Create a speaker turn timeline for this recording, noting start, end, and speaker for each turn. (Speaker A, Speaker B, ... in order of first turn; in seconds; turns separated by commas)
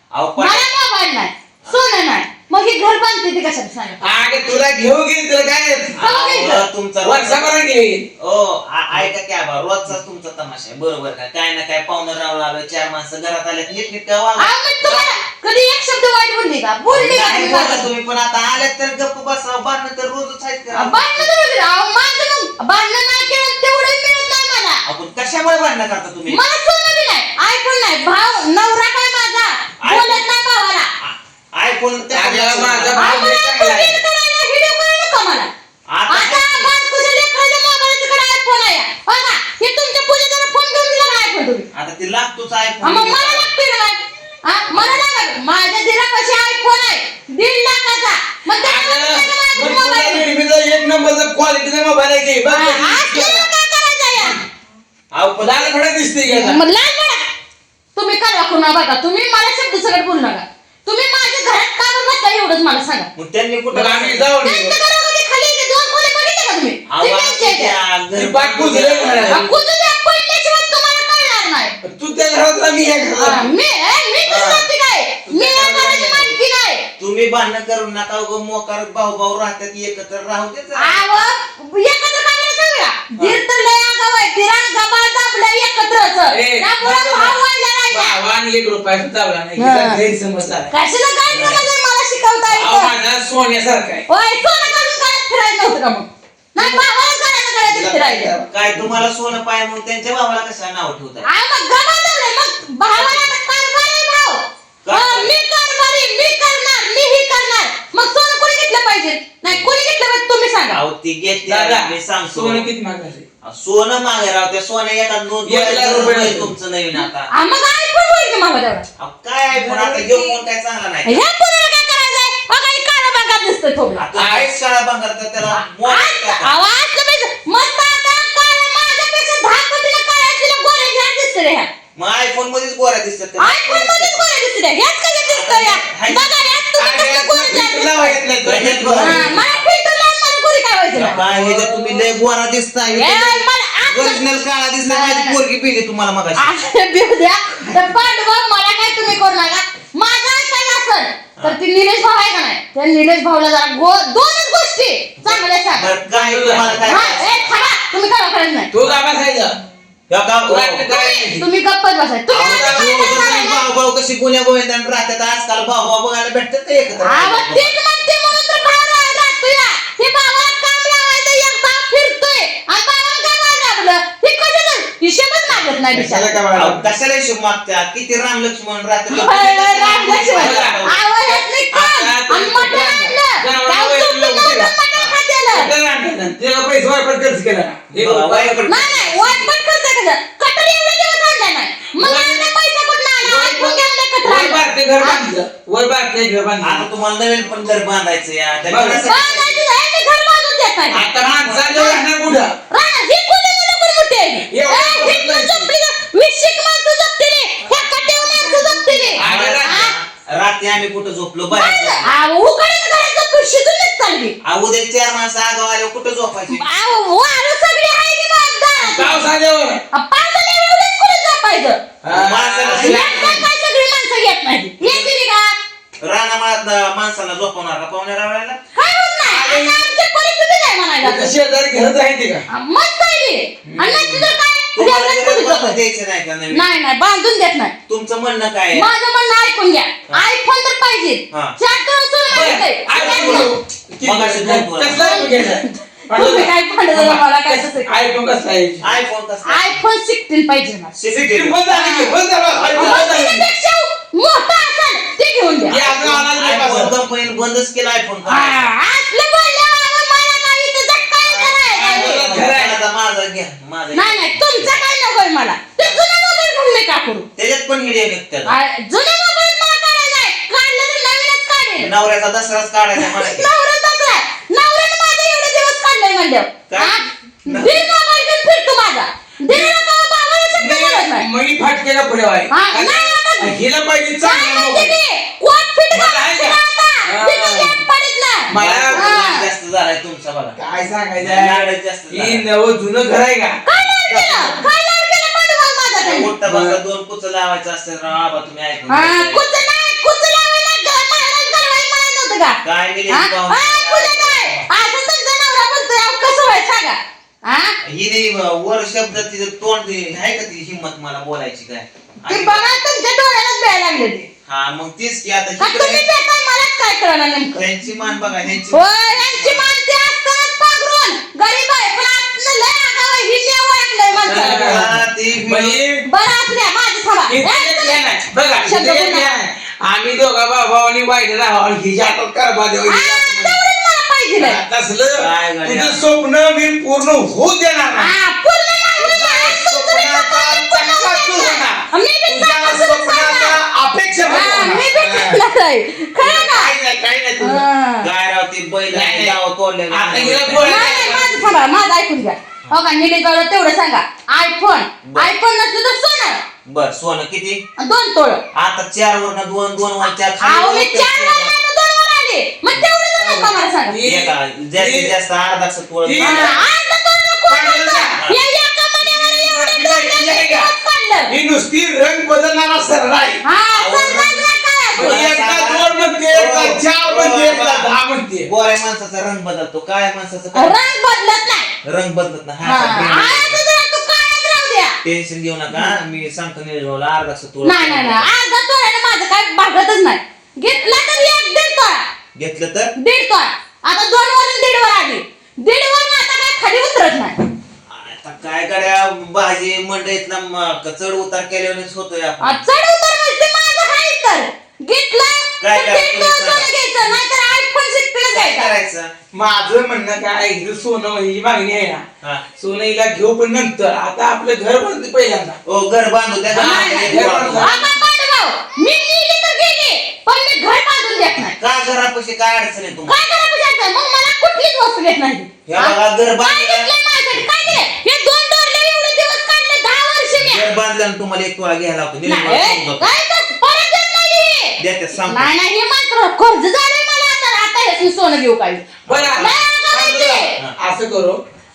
Speaker A: 0.1-0.8, Speaker B: 0.4-4.0, Speaker C: 4.0-6.0, Speaker A: 6.0-7.6, Speaker B: 6.0-6.7, Speaker C: 7.0-8.1, Speaker A: 8.2-15.1, Speaker B: 14.4-17.9, Speaker A: 16.9-21.3, Speaker B: 20.7-24.8, Speaker A: 24.9-26.4, Speaker B: 26.3-30.9, Speaker A: 29.8-30.3, Speaker A: 31.0-33.0, Speaker C: 32.1-34.0, Speaker B: 32.9-35.5, Speaker A: 35.9-36.7, Speaker B: 36.1-41.7, Speaker A: 41.7-43.5, Speaker B: 42.8-50.3, Speaker A: 44.7-45.0, Speaker C: 48.6-53.5, Speaker B: 52.5-54.4, Speaker A: 55.1-55.8, Speaker C: 55.4-56.6, Speaker B: 56.3-57.3, Speaker B: 58.0-63.1, Speaker A: 63.2-64.3, Speaker C: 63.7-64.8, Speaker B: 64.4-67.7, Speaker A: 66.9-69.5, Speaker C: 68.1-69.5, Speaker B: 69.2-71.8, Speaker C: 71.8-73.5, Speaker B: 73.1-76.9, Speaker A: 74.2-74.7, Speaker C: 75.3-76.3, Speaker A: 77.0-81.0, Speaker B: 80.8-88.2, Speaker C: 86.3-90.7, Speaker B: 89.6-90.0, Speaker B: 90.7-92.9, Speaker A: 91.3-91.6, Speaker C: 92.5-94.0, Speaker B: 94.1-98.3, Speaker C: 96.6-96.8, Speaker C: 97.7-99.0, Speaker A: 98.5-101.3, Speaker B: 101.2-110.8, Speaker A: 102.9-103.3, Speaker A: 104.8-105.3, Speaker A: 110.7-112.6, Speaker C: 111.5-113.2, Speaker A: 113.4-117.3, Speaker C: 115.5-116.5, Speaker B: 117.0-118.9, Speaker A: 119.0-121.2, Speaker B: 119.6-120.3, Speaker B: 121.0-124.0, Speaker A: 124.0-126.5, Speaker C: 124.1-124.5, Speaker B: 125.8-131.7, Speaker A: 132.0-134.3, Speaker B: 133.4-138.2, Speaker A: 135.3-136.6, Speaker C: 136.8-139.4, Speaker A: 138.4-139.7, Speaker B: 139.0-141.3, Speaker A: 140.9-146.6, Speaker C: 141.2-142.1, Speaker B: 142.9-144.3, Speaker B: 144.8-145.4, Speaker B: 146.3-155.9, Speaker A: 155.2-157.4, Speaker C: 156.1-157.1, Speaker B: 156.8-158.7, Speaker C: 158.7-159.6, Speaker A: 160.1-160.9, Speaker C: 160.4-161.4, Speaker B: 160.9-163.7, Speaker C: 162.3-163.4, Speaker A: 162.3-167.8, Speaker B: 167.0-176.4, Speaker C: 175.9-176.8, Speaker A: 176.5-181.0, Speaker B: 179.1-185.7, Speaker C: 180.3-184.7, Speaker C: 185.5-188.6, Speaker A: 188.0-189.5, Speaker B: 188.7-195.3, Speaker C: 192.0-192.5, Speaker C: 193.2-196.9, Speaker A: 196.6-199.6, Speaker C: 198.7-199.1, Speaker B: 199.0-201.1, Speaker C: 200.9-202.6, Speaker A: 201.2-201.9, Speaker B: 201.6-202.0, Speaker B: 202.7-209.9, Speaker C: 204.5-205.7, Speaker A: 208.4-212.1, Speaker C: 209.2-209.9, Speaker B: 211.5-214.3, Speaker A: 214.4-216.7, Speaker B: 216.5-219.3, Speaker C: 218.8-219.8, Speaker B: 219.9-221.8, Speaker C: 222.0-223.4, Speaker A: 222.1-223.4, Speaker B: 222.7-225.6, Speaker A: 224.8-225.1, Speaker A: 226.0-228.6, Speaker B: 228.8-231.3, Speaker C: 229.2-229.9, Speaker C: 231.0-232.4, Speaker B: 232.5-235.8, Speaker C: 233.7-234.3, Speaker A: 234.8-236.7, Speaker B: 236.5-237.7, Speaker A: 237.9-238.9, Speaker B: 238.7-243.5, Speaker C: 242.3-248.9, Speaker A: 242.9-243.5, Speaker A: 244.0-245.2, Speaker B: 244.9-248.0, Speaker A: 248.8-249.7, Speaker B: 249.4-250.9, Speaker A: 250.9-251.6, Speaker C: 251.1-253.5, Speaker B: 251.7-252.2, Speaker A: 252.5-253.2, Speaker B: 252.7-255.8, Speaker C: 255.7-256.9, Speaker A: 255.7-258.8, Speaker B: 258.2-262.2, Speaker C: 261.3-262.8, Speaker A: 261.9-264.8, Speaker B: 263.9-267.2, Speaker A: 267.4-268.5, Speaker B: 268.4-271.9, Speaker A: 271.8-273.5, Speaker B: 273.0-281.3, Speaker A: 276.7-277.8, Speaker C: 279.5-279.8, Speaker C: 280.6-284.9, Speaker B: 282.5-283.6, Speaker B: 284.2-289.5, Speaker C: 285.9-287.8, Speaker C: 288.5-289.1, Speaker A: 288.6-290.6, Speaker C: 290.6-294.7, Speaker A: 291.2-292.4, Speaker B: 293.6-296.3, Speaker A: 296.0-299.4, Speaker C: 296.4-296.8, Speaker B: 298.9-307.8, Speaker A: 302.6-304.7, Speaker A: 307.8-312.8, Speaker B: 312.2-314.3, Speaker A: 314.4-316.1, Speaker B: 315.6-317.6, Speaker A: 317.6-319.8, Speaker B: 318.7-324.9, Speaker A: 324.2-325.8, Speaker C: 324.3-326.0, Speaker B: 326.0-329.4, Speaker C: 327.3-333.6, Speaker B: 332.8-334.6, Speaker C: 334.4-338.1, Speaker A: 335.1-336.0, Speaker B: 338.0-343.6, Speaker C: 339.0-345.4, Speaker B: 344.2-346.8, Speaker C: 346.2-347.6, Speaker B: 347.4-348.1, Speaker A: 348.0-350.8, Speaker C: 348.9-349.4, Speaker C: 349.9-351.6, Speaker B: 350.6-356.4, Speaker A: 355.0-355.3, Speaker A: 356.6-357.6, Speaker B: 357.8-358.4, Speaker A: 358.5-361.5, Speaker B: 360.4-364.0, Speaker A: 362.7-363.0, Speaker C: 363.2-365.1, Speaker A: 364.0-366.6, Speaker C: 366.0-366.6, Speaker B: 366.2-371.4, Speaker C: 367.5-368.2, Speaker C: 369.0-370.7, Speaker C: 371.3-373.4, Speaker B: 373.4-375.2, Speaker A: 373.7-380.9, Speaker C: 374.9-378.5, Speaker B: 380.5-381.7, Speaker A: 381.8-383.6, Speaker B: 382.6-385.0, Speaker A: 385.0-388.3, Speaker B: 387.6-392.1, Speaker A: 392.4-392.9, Speaker B: 393.0-397.4, Speaker A: 397.9-402.6, Speaker B: 402.4-408.7, Speaker A: 405.6-406.7, Speaker A: 408.3-409.1, Speaker C: 409.3-412.0, Speaker C: 412.6-415.6, Speaker A: 415.7-417.7, Speaker C: 416.5-417.8, Speaker B: 416.6-421.6, Speaker A: 421.4-423.2, Speaker B: 423.1-430.7, Speaker A: 425.7-426.9, Speaker A: 430.3-433.1, Speaker B: 432.2-440.6, Speaker A: 434.8-435.5, Speaker A: 439.1-439.7, Speaker C: 439.1-441.4